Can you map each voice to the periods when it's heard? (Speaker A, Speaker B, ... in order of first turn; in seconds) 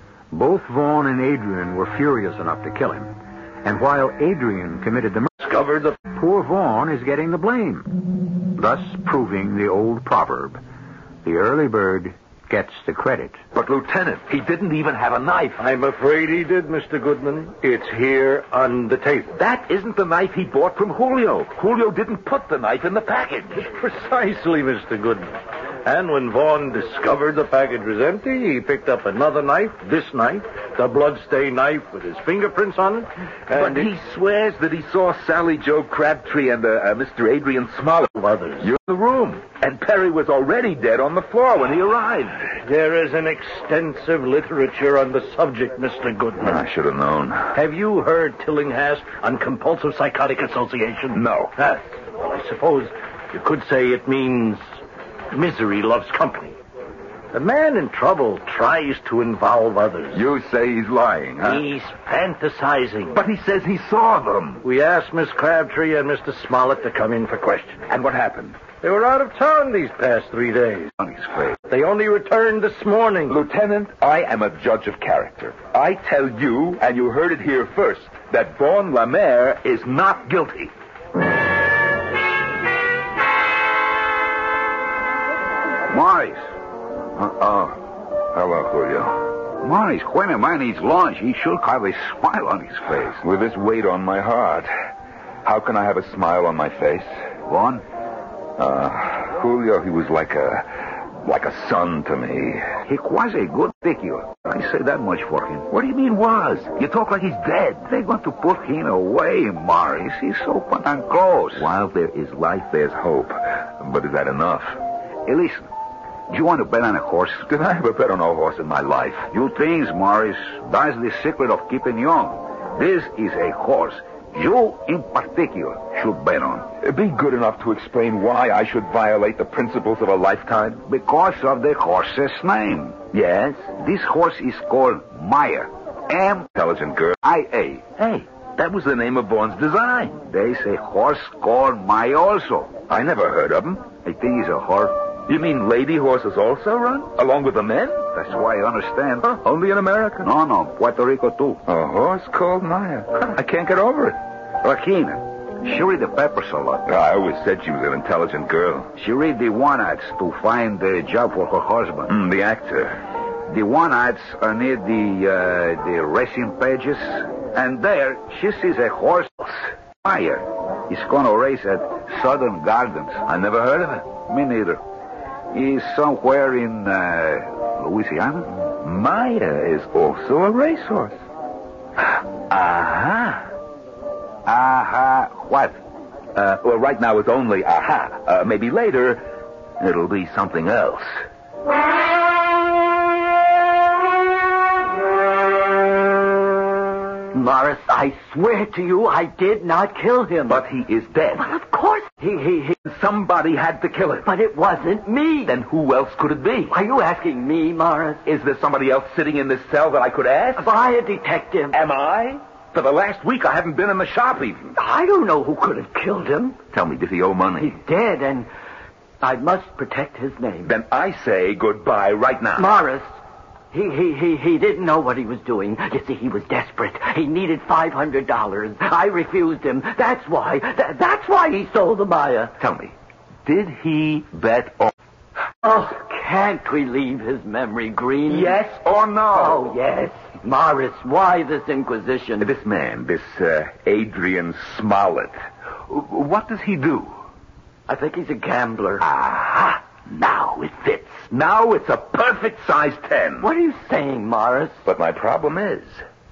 Speaker A: 0.3-3.1, 3.6-5.3, 6.1-8.0, 8.5-10.6, 11.2-13.4
Speaker B: 5.4-6.0, 15.6-19.4, 23.6-33.9, 38.1-38.7, 42.6-46.6, 47.5-54.6, 55.3-56.5, 57.3-60.2, 61.4-63.2, 64.6-67.8, 68.7-70.9, 71.7-73.4
Speaker C: 13.5-15.6, 19.3-23.7, 33.5-42.5, 46.4-47.5, 51.1-51.5, 60.1-61.6, 63.1-64.6, 67.9-68.7, 71.0-71.5, 73.3-80.7, 87.2-89.3, 93.2-94.7, 95.4-97.1, 98.6-102.7, 105.7-108.1, 111.5-114.8, 117.5-119.3, 126.8-130.8, 133.1-133.7, 136.5-140.2, 142.9-143.9, 145.2-148.1, 149.2-150.3, 151.7-154.2, 156.9-158.9, 162.1-163.0, 173.2-174.1, 178.7-181.2, 182.0-183.5, 186.3-189.3, 189.8-191.1, 200.5-201.5, 202.7-204.3, 205.4-206.8, 208.2-210.7, 211.7-214.7, 216.7-217.8, 220.6-222.8, 232.6-232.9, 233.4-234.9, 238.3-239.8, 242.4-245.4, 245.9-247.2, 249.0-253.5, 254.8-256.0
Speaker D: 85.9-86.5, 89.6-93.2, 97.5-97.8, 102.8-105.7, 108.1-111.7, 115.2-115.7, 116.3-117.5, 119.3-126.7, 130.9-133.1, 133.7-136.5, 140.2-142.8, 144.0-145.0, 148.1-149.4, 150.2-151.6, 154.6-156.9, 158.9-162.1, 163.5-173.2, 174.1-174.8, 175.5-178.6, 184.4-185.8
Speaker E: 197.3-200.6, 201.4-202.7, 204.2-205.5, 206.7-208.2, 210.6-211.8, 214.8-216.6, 217.6-218.5, 219.2-220.7, 222.6-223.1, 223.7-232.5, 235.6-238.6, 239.3-242.5, 247.9-249.1, 253.4-254.8